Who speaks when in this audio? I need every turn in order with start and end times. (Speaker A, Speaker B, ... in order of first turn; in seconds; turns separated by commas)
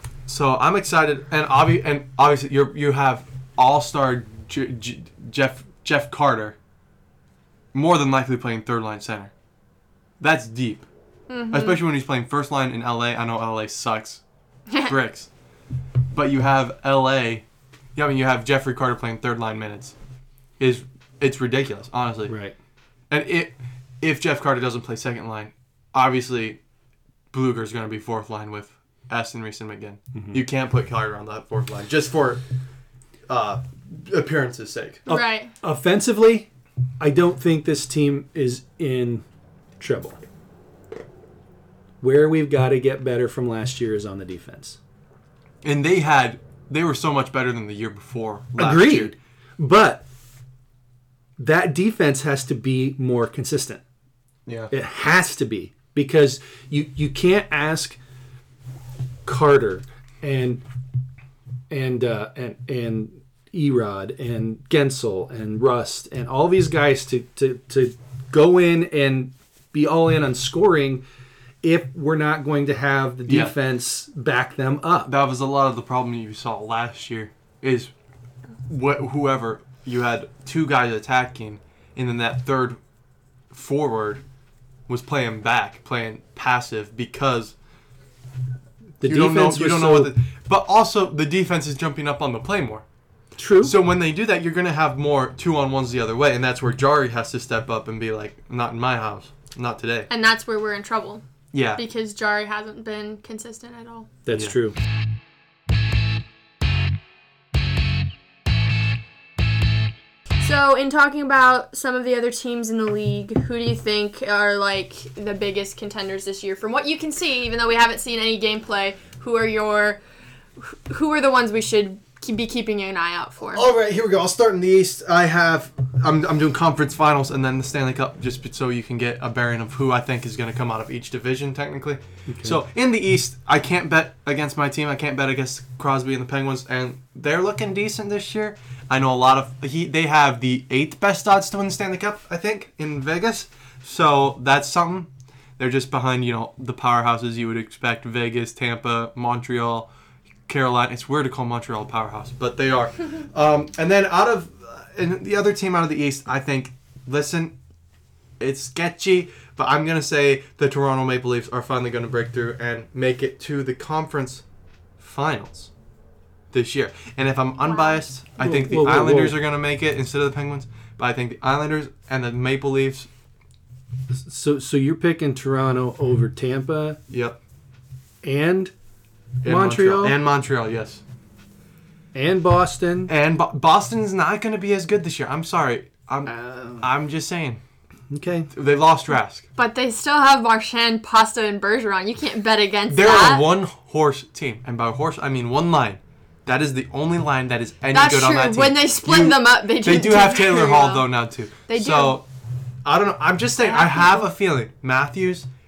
Speaker A: 0.3-6.6, Speaker A: 7.7-9.3, Speaker A: 10.2-10.9, Speaker B: 11.3-11.8, Speaker A: 11.5-14.2, Speaker A: 14.9-15.3, Speaker A: 16.1-17.4, Speaker A: 17.9-19.9, Speaker A: 20.6-22.4, Speaker C: 22.3-22.6, Speaker A: 23.1-26.6, Speaker A: 27.3-32.4, Speaker C: 30.1-30.4, Speaker A: 33.3-35.0, Speaker B: 35.1-35.5, Speaker C: 35.1-36.5, Speaker C: 37.0-39.2, Speaker C: 39.8-40.2, Speaker C: 42.0-44.8, Speaker A: 45.6-49.1, Speaker C: 48.6-50.0, Speaker C: 51.4-53.8, Speaker A: 54.5-54.7, Speaker C: 54.7-58.0, Speaker C: 59.3-60.6, Speaker C: 61.7-71.0, Speaker C: 71.6-75.1, Speaker A: 73.3-73.5, Speaker A: 75.1-77.9, Speaker A: 78.7-82.8, Speaker A: 83.5-84.2, Speaker A: 84.9-87.5, Speaker C: 89.0-90.1, Speaker A: 89.0-92.8, Speaker C: 93.4-93.8, Speaker A: 93.6-100.1, Speaker B: 100.1-101.2, Speaker A: 101.5-101.8, Speaker B: 101.8-104.1, Speaker C: 104.3-104.8, Speaker B: 110.4-120.0, Speaker B: 120.6-123.7, Speaker A: 123.5-149.9, Speaker C: 132.3-132.6, Speaker A: 150.5-157.5, Speaker A: 158.4-164.4, Speaker A: 165.0-165.7, Speaker A: 166.5-173.1, Speaker B: 167.6-168.1, Speaker C: 168.4-169.4, Speaker C: 174.1-177.0, Speaker A: 177.1-177.4, Speaker C: 178.2-178.7, Speaker A: 179.4-181.0, Speaker C: 179.4-180.2, Speaker C: 182.1-183.1, Speaker A: 183.1-187.6, Speaker C: 186.4-186.8, Speaker C: 188.1-188.5, Speaker A: 188.5-189.4, Speaker B: 189.6-193.4, Speaker A: 192.9-202.2, Speaker B: 197.9-201.1, Speaker B: 201.7-202.2, Speaker A: 202.8-205.5, Speaker B: 203.6-204.3